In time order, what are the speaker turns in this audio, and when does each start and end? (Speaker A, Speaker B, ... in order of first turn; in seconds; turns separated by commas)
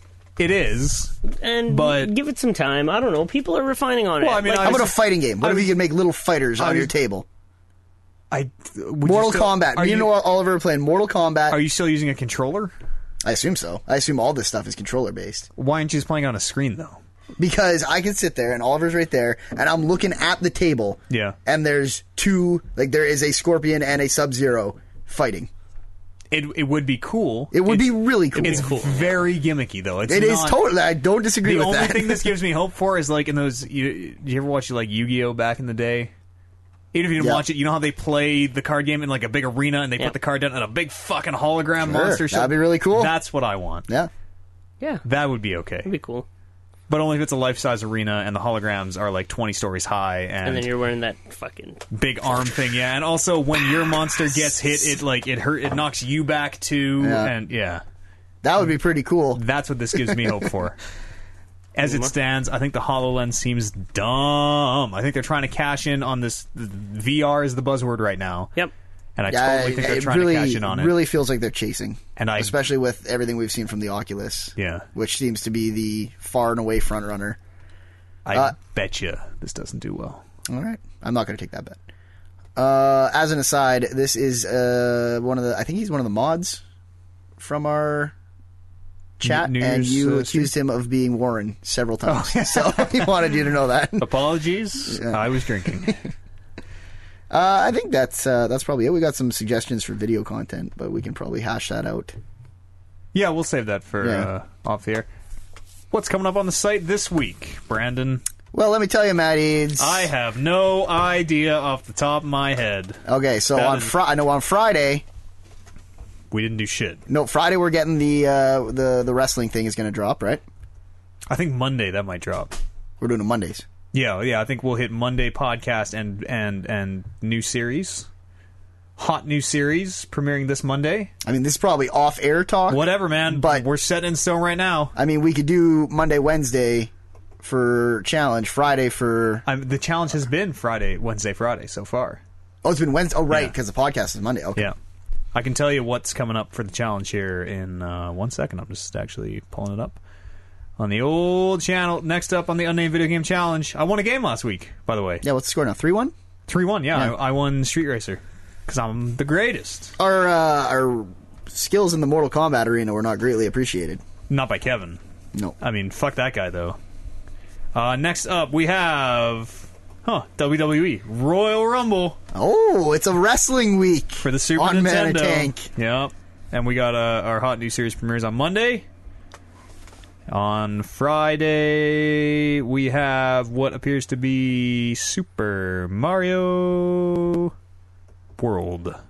Speaker A: 0.4-1.1, Speaker B: 1.3-4.9, Speaker A: 1.7-2.1, Speaker A: 4.2-5.7, Speaker C: 4.5-7.2, Speaker A: 6.6-6.9, Speaker A: 8.3-10.1, Speaker C: 9.0-11.6, Speaker A: 11.5-12.7, Speaker C: 13.2-15.5, Speaker A: 15.6-17.0, Speaker C: 17.4-25.5, Speaker A: 21.1-21.4, Speaker A: 26.3-30.6, Speaker C: 27.5-28.7, Speaker B: 28.3-29.2, Speaker C: 30.1-32.4, Speaker A: 31.4-36.1, Speaker A: 36.9-43.9, Speaker C: 37.2-37.4, Speaker C: 41.8-43.2, Speaker A: 45.0-45.9, Speaker B: 45.8-46.3, Speaker A: 46.9-50.7, Speaker B: 50.4-51.9, Speaker A: 51.9-57.8, Speaker C: 57.0-57.3, Speaker C: 58.4-59.4, Speaker A: 59.4-60.8, Speaker C: 59.9-60.5, Speaker A: 61.8-68.5, Speaker B: 61.8-62.1, Speaker A: 69.2-70.9, Speaker C: 69.3-77.4, Speaker A: 72.2-72.5, Speaker A: 74.6-74.8, Speaker A: 78.2-80.2, Speaker C: 80.5-81.8, Speaker C: 82.6-86.6, Speaker C: 87.4-88.1, Speaker C: 89.2-94.1, Speaker A: 89.2-90.5, Speaker A: 92.1-93.2, Speaker A: 94.0-96.0, Speaker C: 94.9-96.0, Speaker C: 97.3-102.2, Speaker A: 103.1-105.1, Speaker C: 104.0-104.3, Speaker A: 105.9-108.2, Speaker C: 108.5-110.1, Speaker A: 109.8-113.0, Speaker C: 113.1-115.0, Speaker A: 113.5-113.9, Speaker A: 116.3-117.0, Speaker C: 117.1-120.4, Speaker A: 121.3-122.5, Speaker C: 123.0-123.7, Speaker A: 123.9-128.1, Speaker A: 129.0-131.1, Speaker C: 131.2-133.7, Speaker A: 132.7-134.9, Speaker C: 134.9-139.4, Speaker A: 139.4-142.2, Speaker C: 142.6-144.7, Speaker A: 145.3-150.0, Speaker A: 150.8-155.2, Speaker C: 155.2-156.1, Speaker A: 156.5-159.9, Speaker C: 160.0-164.0, Speaker A: 164.3-165.0, Speaker A: 165.6-166.8, Speaker A: 167.7-172.2, Speaker C: 172.3-175.7, Speaker A: 174.2-178.9, Speaker A: 180.3-187.5, Speaker A: 188.4-189.0